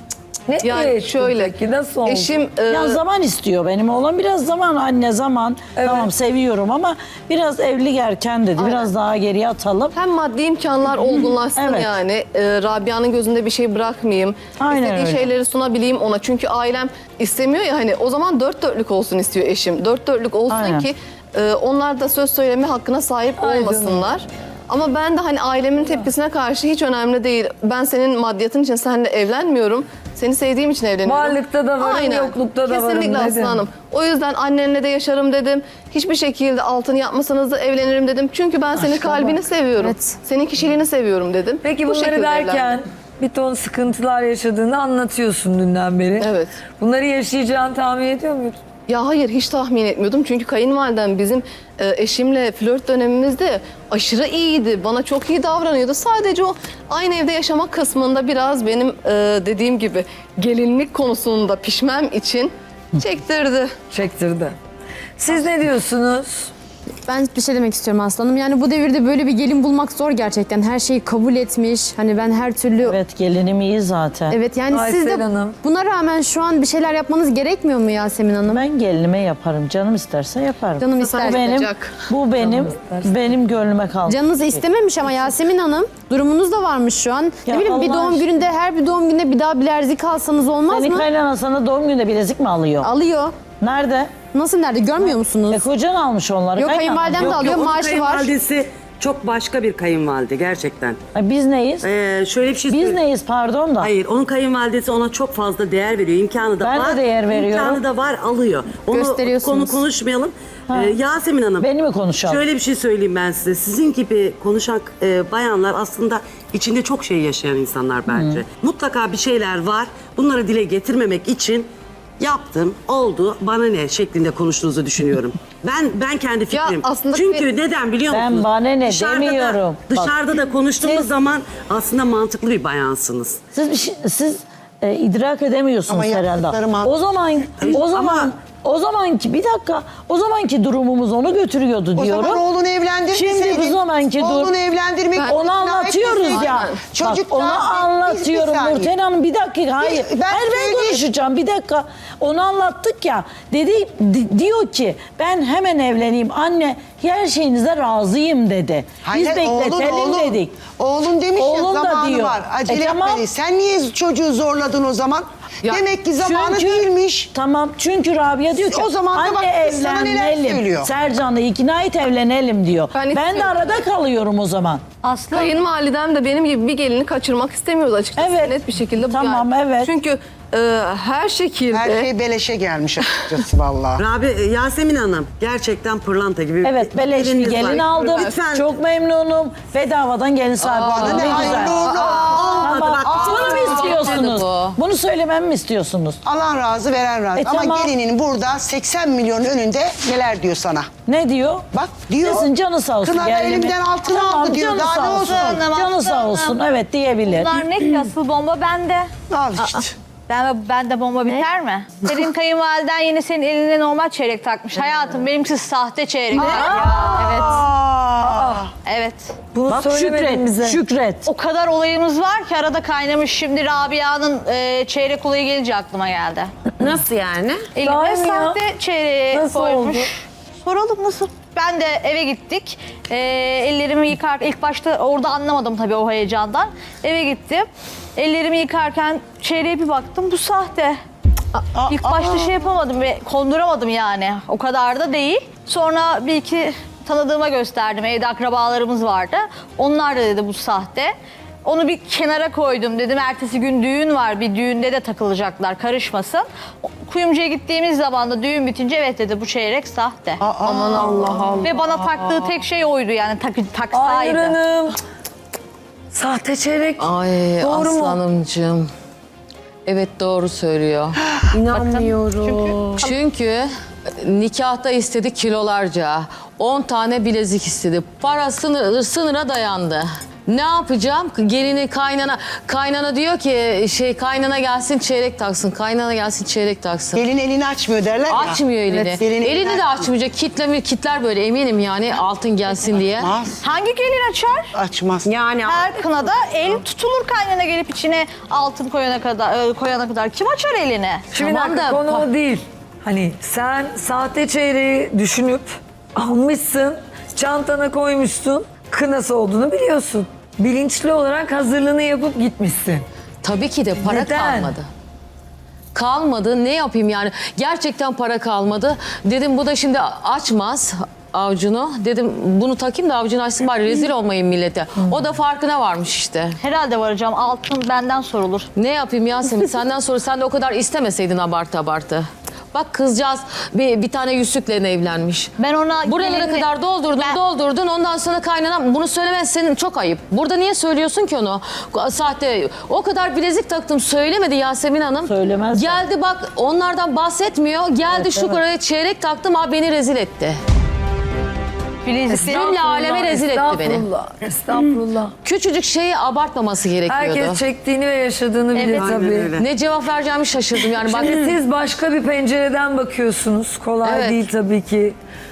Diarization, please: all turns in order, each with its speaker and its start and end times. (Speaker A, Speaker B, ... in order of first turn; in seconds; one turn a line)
Speaker A: 0.5-2.4
Speaker B: 0.6-1.5
Speaker B: 2.0-3.0
Speaker C: 2.7-9.9
Speaker A: 5.8-6.1
Speaker B: 8.6-8.8
Speaker B: 9.9-42.8
Speaker C: 11.6-12.0
Speaker C: 14.6-15.3
Speaker C: 20.5-20.9
Speaker A: 23.4-24.2
Speaker A: 31.1-33.6
Speaker A: 38.8-39.1
Speaker D: 39.8-40.2
Speaker A: 41.6-48.6
Speaker B: 46.2-46.5
Speaker B: 48.9-63.7
Speaker A: 63.9-64.6
Speaker A: 65.2-66.5
Speaker D: 67.1-73.0
Speaker C: 72.8-74.4
Speaker D: 74.3-78.6
Speaker A: 74.7-75.6
Speaker C: 78.5-84.6
Speaker D: 80.8-81.5
Speaker B: 81.0-81.9
Speaker A: 82.4-83.3
Speaker D: 84.1-91.1
Speaker C: 87.5-88.3
Speaker C: 90.7-92.9
Speaker D: 92.8-93.3
Speaker C: 93.6-94.1
Speaker D: 94.3-95.6
Speaker C: 95.0-97.5
Speaker D: 96.6-98.3
Speaker E: 97.1-101.0
Speaker C: 101.1-101.9
Speaker E: 101.8-103.0
Speaker C: 102.7-103.9
Speaker E: 103.8-111.7
Speaker C: 106.6-107.8
Speaker D: 108.9-109.8
Speaker C: 110.7-110.9
Speaker C: 111.6-112.4
Speaker E: 112.2-121.7
Speaker C: 118.1-118.4
Speaker E: 122.2-133.4
Speaker B: 126.5-127.5
Speaker C: 128.1-130.1
Speaker C: 133.5-142.4
Speaker F: 135.9-136.9
Speaker E: 137.6-138.3
Speaker F: 142.0-148.9
Speaker C: 143.1-144.5
Speaker B: 145.2-145.4
Speaker C: 145.3-160.6
Speaker B: 146.0-146.9
Speaker F: 149.8-151.0
Speaker F: 159.0-167.3
Speaker C: 161.4-163.2
Speaker C: 166.2-174.8
Speaker F: 168.6-170.9
Speaker B: 172.9-173.5
Speaker G: 175.0-175.6
Speaker B: 175.3-182.1
Speaker C: 178.2-179.9
Speaker F: 181.7-184.0
Speaker E: 184.0-188.7
Speaker C: 186.6-196.2
Speaker H: 190.6-194.8
Speaker F: 190.7-194.0
Speaker E: 191.3-191.7
Speaker E: 192.3-193.6
Speaker F: 196.2-200.9
Speaker C: 197.4-197.9
Speaker C: 201.1-201.7
Speaker F: 201.7-202.5
Speaker C: 202.2-207.6
Speaker F: 203.0-205.6
Speaker G: 205.0-206.6
Speaker G: 207.3-209.1
Speaker F: 209.3-209.9
Speaker G: 210.3-217.6
Speaker F: 216.3-218.7
Speaker D: 217.1-217.5
Speaker A: 218.3-218.6
Speaker G: 218.8-219.4
Speaker A: 219.5-220.8
Speaker C: 219.7-221.3
Speaker G: 221.2-226.5
Speaker D: 226.8-227.7
Speaker G: 227.7-241.0
Speaker A: 227.8-228.6
Speaker A: 229.3-230.1
Speaker F: 241.7-242.5
Speaker G: 241.9-260.4
Speaker F: 260.4-262.3
Speaker B: 260.6-261.7
Speaker G: 261.6-264.6
Speaker A: 263.9-265.0
Speaker A: 266.1-267.1
Speaker H: 267.0-268.9
Speaker A: 267.6-268.2
Speaker H: 269.9-272.1
Speaker D: 271.7-272.2
Speaker G: 272.4-273.1
Speaker H: 273.0-287.2
Speaker F: 287.1-288.6
Speaker H: 288.3-293.3
Speaker F: 289.2-290.1
Speaker F: 293.2-293.6
Speaker G: 293.6-294.7
Speaker F: 294.7-295.3
Speaker D: 295.2-295.9
Speaker G: 295.6-301.2
Speaker A: 301.3-313.0
Speaker H: 301.4-302.3
Speaker H: 313.4-314.9
Speaker A: 314.0-314.7
Speaker H: 315.9-326.6
Speaker G: 326.6-328.7
Speaker H: 328.8-335.5
Speaker G: 335.6-336.7
Speaker H: 336.0-350.6
Speaker C: 345.2-346.0
Speaker C: 348.2-348.6
Speaker G: 352.0-352.7
Speaker A: 352.3-355.3
Speaker H: 352.4-354.0
Speaker H: 355.4-357.6
Speaker A: 357.1-359.5
Speaker G: 358.7-359.2
Speaker E: 358.9-359.6
Speaker H: 359.6-361.5
Speaker A: 361.0-365.1
Speaker H: 364.0-364.4